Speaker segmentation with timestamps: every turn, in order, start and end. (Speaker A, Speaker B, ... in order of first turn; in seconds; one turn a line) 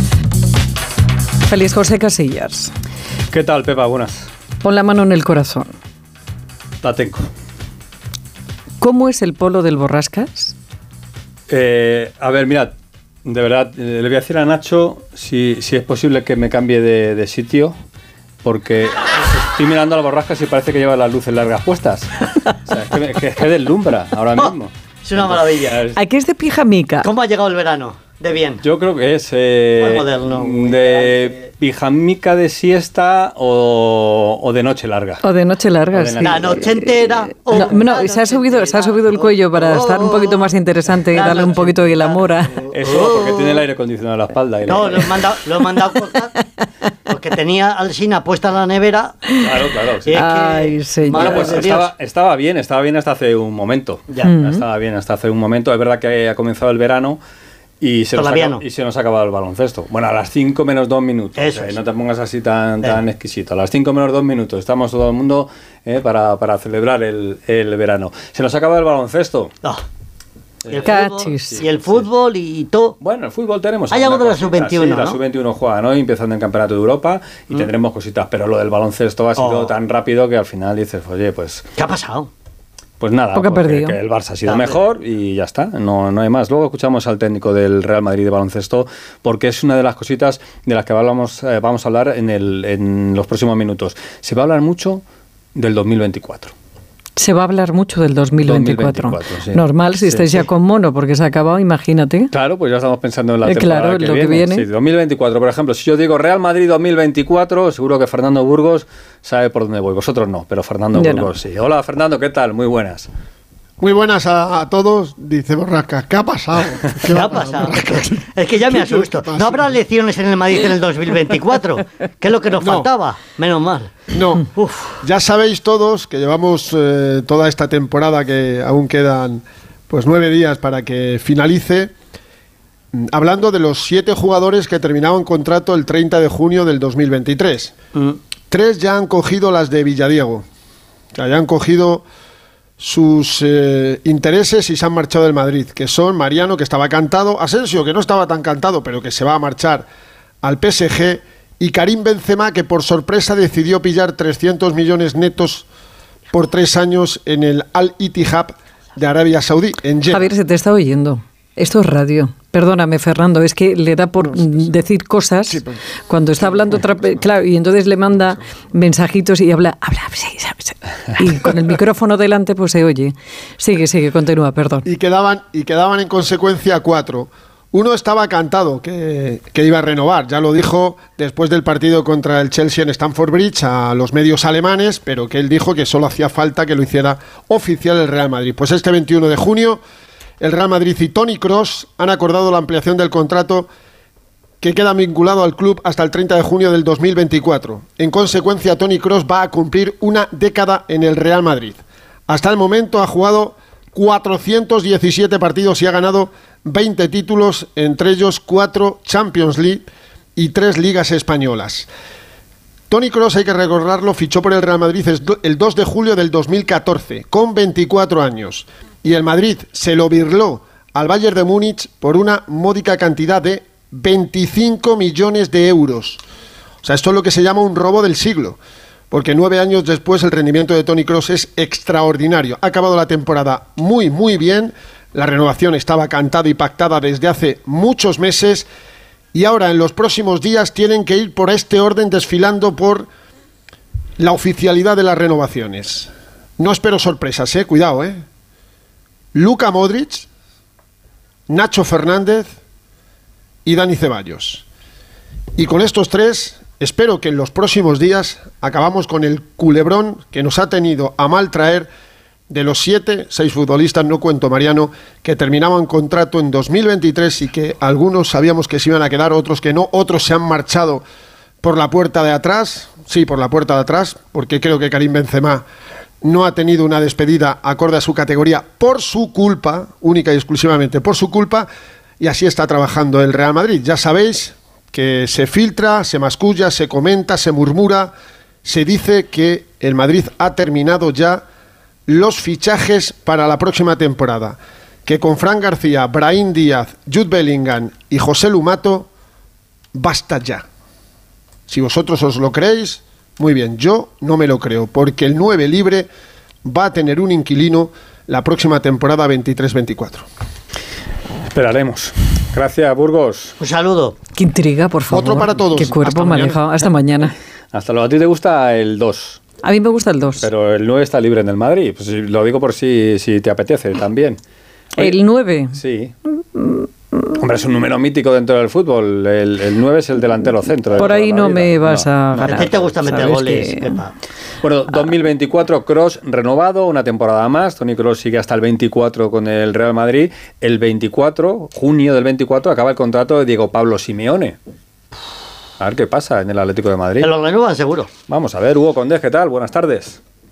Speaker A: 1.5-2.7
Speaker B: 3.3-4.3
Speaker A: 4.6-5.7
Speaker B: 6.8-7.3
Speaker A: 8.8-10.6
Speaker B: 11.5-12.7
Speaker B: 13.2-17.8
Speaker B: 18.4-26.0
Speaker C: 24.4-25.8
Speaker A: 25.9-27.1
Speaker C: 27.0-28.6
Speaker B: 28.6-35.2
Speaker C: 29.8-31.4
Speaker A: 35.2-42.6
Speaker B: 35.9-36.7
Speaker C: 36.2-40.5
Speaker C: 41.1-43.6
Speaker B: 42.6-45.3
Speaker C: 44.7-46.3
Speaker A: 46.0-46.4
Speaker C: 47.1-49.2
Speaker B: 49.4-50.3
Speaker C: 50.0-51.9
Speaker A: 50.1-51.6
Speaker B: 51.1-57.2
Speaker A: 54.2-54.6
Speaker B: 57.8-69.5
Speaker C: 58.1-58.6
Speaker C: 61.4-61.8
Speaker B: 70.6-72.1
Speaker C: 70.7-73.0
Speaker A: 70.8-71.6
Speaker B: 73.0-81.7
Speaker C: 73.9-75.2
Speaker C: 79.4-79.7
Speaker C: 81.8-82.3
Speaker B: 83.0-95.0
Speaker A: 83.3-84.0
Speaker C: 84.5-84.8
Speaker B: 95.6-96.5
Speaker A: 97.2-102.3
Speaker B: 98.5-100.5
Speaker B: 102.3-113.1
Speaker A: 103.4-104.7
Speaker A: 110.9-111.3
Speaker D: 113.8-119.7
Speaker C: 117.1-125.0
Speaker D: 122.6-122.9
Speaker D: 124.1-124.5
Speaker D: 125.0-131.9
Speaker D: 132.9-137.7
Speaker D: 138.5-140.4
Speaker D: 141.2-142.1
Speaker D: 142.8-149.9
Speaker D: 150.4-155.7
Speaker D: 156.3-160.3
Speaker A: 160.1-174.8
Speaker D: 164.3-164.7
Speaker D: 165.5-165.8
Speaker D: 166.4-167.3
Speaker D: 174.9-189.8
Speaker D: 190.4-193.7
Speaker D: 194.6-211.9
Speaker D: 212.9-226.2
Speaker D: 226.8-228.6
Speaker D: 229.1-238.7
Speaker D: 239.3-243.1
Speaker D: 244.2-248.2
Speaker D: 249.3-250.3
Speaker D: 251.5-252.5
Speaker D: 253.7-254.7
Speaker D: 255.6-261.9
Speaker D: 262.5-271.0
Speaker D: 271.6-275.6
Speaker D: 276.2-281.7
Speaker D: 282.2-288.1
Speaker D: 288.6-291.4
Speaker D: 292.1-299.1
Speaker D: 299.9-300.6
Speaker D: 301.7-306.1
Speaker D: 306.6-310.3
Speaker B: 311.5-313.6
Speaker C: 313.6-314.2
Speaker A: 314.3-317.4
Speaker D: 315.1-316.6
Speaker B: 317.7-319.5
Speaker A: 319.6-320.5
Speaker B: 320.4-324.4
Speaker B: 325.0-325.2
Speaker A: 325.0-325.8
Speaker B: 325.7-326.1
Speaker A: 326.6-326.9
Speaker B: 327.4-332.9
Speaker A: 331.0-334.0
Speaker C: 332.4-334.1
Speaker B: 334.6-344.6
Speaker B: 345.8-347.3
Speaker C: 347.2-348.1
Speaker B: 348.3-350.2